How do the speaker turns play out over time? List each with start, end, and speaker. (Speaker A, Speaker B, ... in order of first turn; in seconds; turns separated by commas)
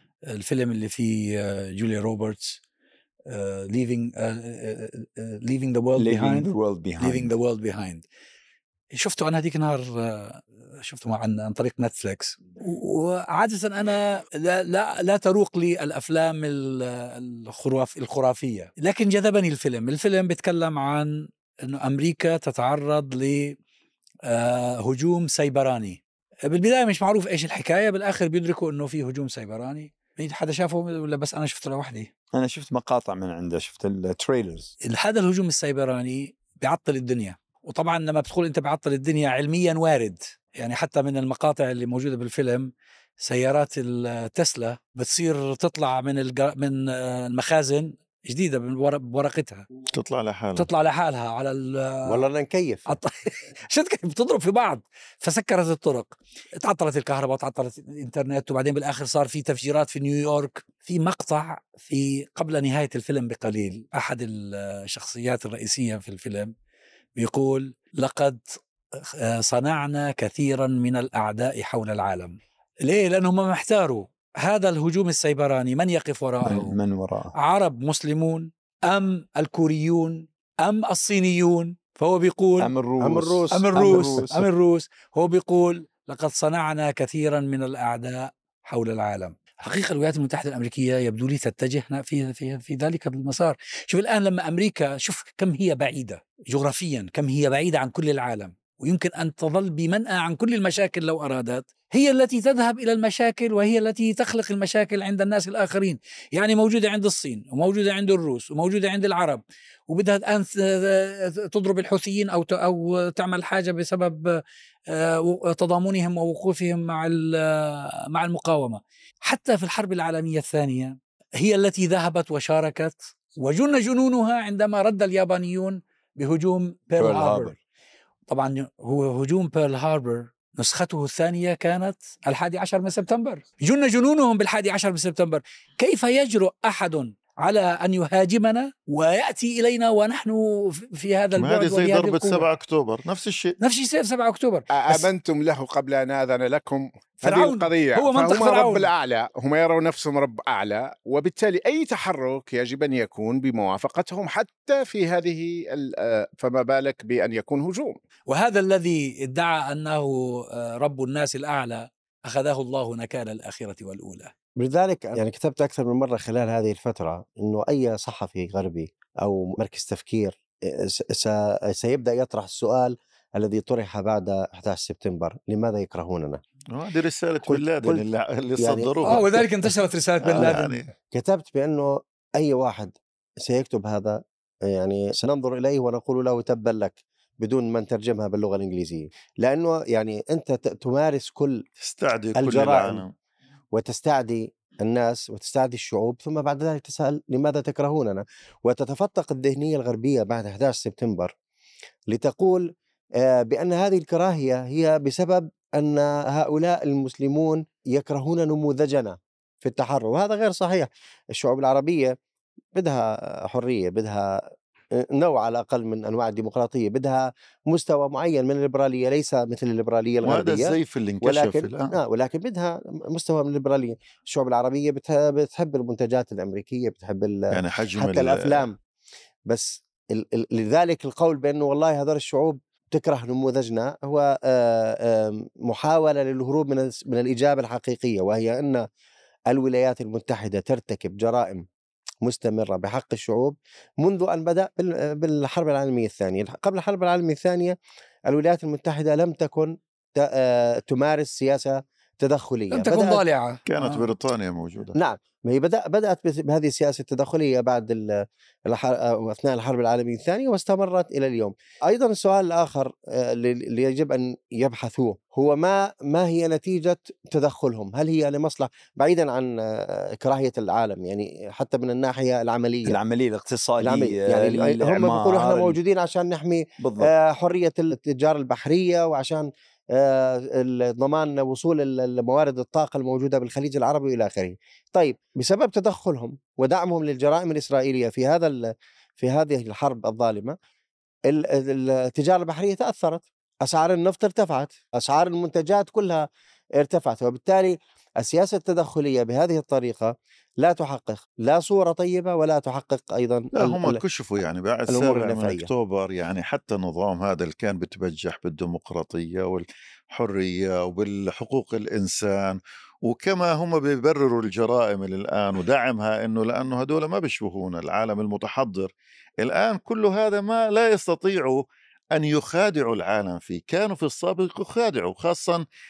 Speaker A: 0.3-2.6, Speaker A: 3.3-8.0, Speaker B: 6.0-7.3, Speaker A: 8.9-23.6, Speaker A: 24.3-32.1, Speaker B: 32.3-34.7, Speaker A: 34.9-49.7, Speaker C: 49.9-50.7, Speaker A: 50.6-52.2, Speaker D: 52.1-52.9, Speaker A: 52.9-66.5, Speaker A: 67.2-76.8, Speaker B: 76.5-77.3, Speaker A: 77.3-82.7, Speaker B: 82.6-84.5, Speaker D: 83.0-84.3, Speaker A: 83.5-127.5, Speaker B: 127.0-127.6, Speaker A: 128.3-142.5, Speaker C: 141.4-143.6, Speaker A: 143.6-145.1, Speaker E: 144.7-158.0, Speaker A: 147.2-148.9, Speaker A: 158.3-164.3, Speaker D: 164.6-176.4, Speaker C: 176.7-179.3, Speaker D: 177.5-178.0, Speaker D: 178.6-179.4, Speaker A: 179.0-180.8, Speaker C: 180.2-180.9, Speaker D: 180.4-191.7, Speaker C: 191.8-193.1, Speaker D: 192.3-193.0, Speaker D: 193.7-201.3, Speaker D: 202.1-212.2, Speaker D: 212.7-228.8, Speaker C: 220.2-222.0, Speaker C: 227.5-228.6, Speaker D: 229.5-238.9, Speaker D: 239.5-241.7, Speaker D: 242.2-247.8, Speaker D: 248.3-253.2, Speaker A: 252.7-254.1, Speaker C: 253.7-254.9, Speaker D: 254.9-273.0, Speaker B: 272.9-275.8, Speaker D: 273.8-290.6, Speaker B: 276.8-277.1, Speaker D: 291.3-304.0, Speaker C: 303.6-321.6, Speaker D: 304.9-305.7, Speaker C: 322.1-325.6